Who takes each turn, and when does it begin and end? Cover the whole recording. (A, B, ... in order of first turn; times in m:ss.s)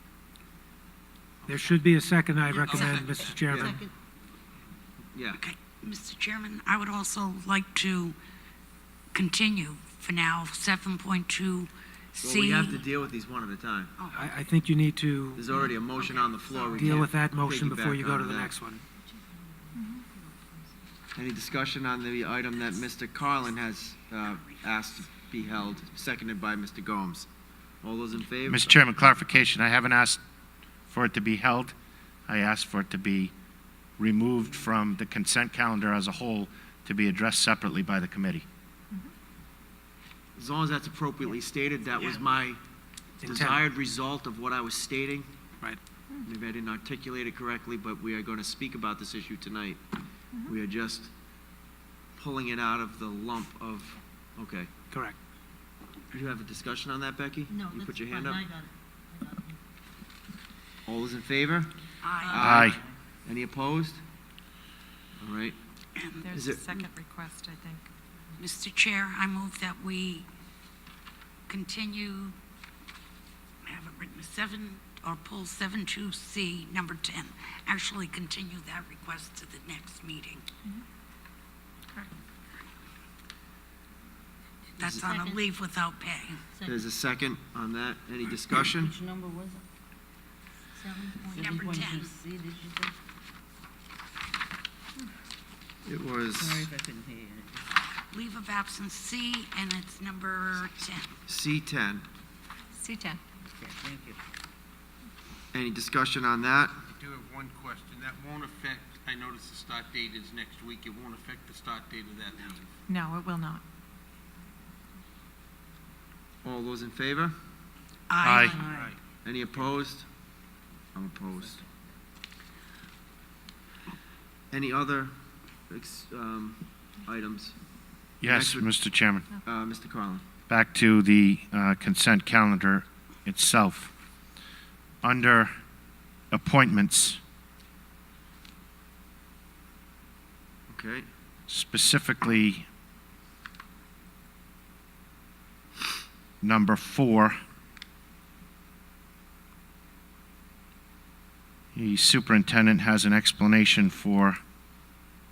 0:01.4-0:03.8 A
0:02.6-0:03.1 B
0:03.4-0:03.8 C
0:05.1-0:05.4 C
0:05.3-0:08.2 D
0:09.1-0:12.8 D
0:12.2-0:13.9 C
0:14.0-0:14.4 D
0:14.1-0:15.5 A
0:15.3-0:18.5 C
0:16.0-0:17.0 D
0:16.8-0:18.8 A
0:19.7-0:20.1 E
0:21.1-0:27.3 C
0:27.8-0:28.8 C
0:28.5-0:30.2 F
0:30.9-0:31.7 F
0:32.3-0:33.3 F
0:34.0-0:38.4 F
0:40.4-0:42.6 C
0:43.2-0:43.6 A
0:43.2-0:45.3 C
0:46.2-0:49.8 C
0:50.4-0:51.1 C
0:52.2-0:54.7 C
0:56.1-0:58.5 C
1:00.8-1:04.0 C
1:02.0-1:02.5 D
1:02.4-1:02.8 F
1:05.2-1:05.6 C
1:06.0-1:06.2 D
1:06.2-1:07.9 E
1:06.3-1:06.8 C
1:08.4-1:10.3 D
1:11.5-1:12.3 D
1:13.6-1:20.4 D
1:24.8-1:26.4 D
1:26.6-1:29.0 C
1:28.9-1:29.6 G
1:31.3-1:32.9 G
1:31.3-1:32.1 D
1:35.8-1:36.7 C
1:36.4-1:37.5 G
1:38.1-1:41.1 D
1:41.3-1:42.0 C
1:42.7-1:43.2 E
1:43.6-1:44.2 G
1:45.5-1:46.8 C
1:47.0-1:52.6 B
1:52.9-1:53.6 E
1:56.4-1:57.3 C
1:58.1-1:58.7 D
1:58.2-1:58.6 F
1:58.6-1:58.9 G
1:59.2-2:00.1 C
2:00.9-2:01.6 C
2:04.5-2:05.1 C
2:05.7-2:07.6 C
2:08.2-2:09.3 F
2:08.2-2:08.7 C
2:09.4-2:10.2 C
2:10.5-2:13.9 F
2:15.0-2:15.5 F
2:16.3-2:17.2 F
2:20.7-2:21.0 C
2:21.5-2:22.6 F
2:26.4-2:27.4 F
2:31.7-2:34.4 F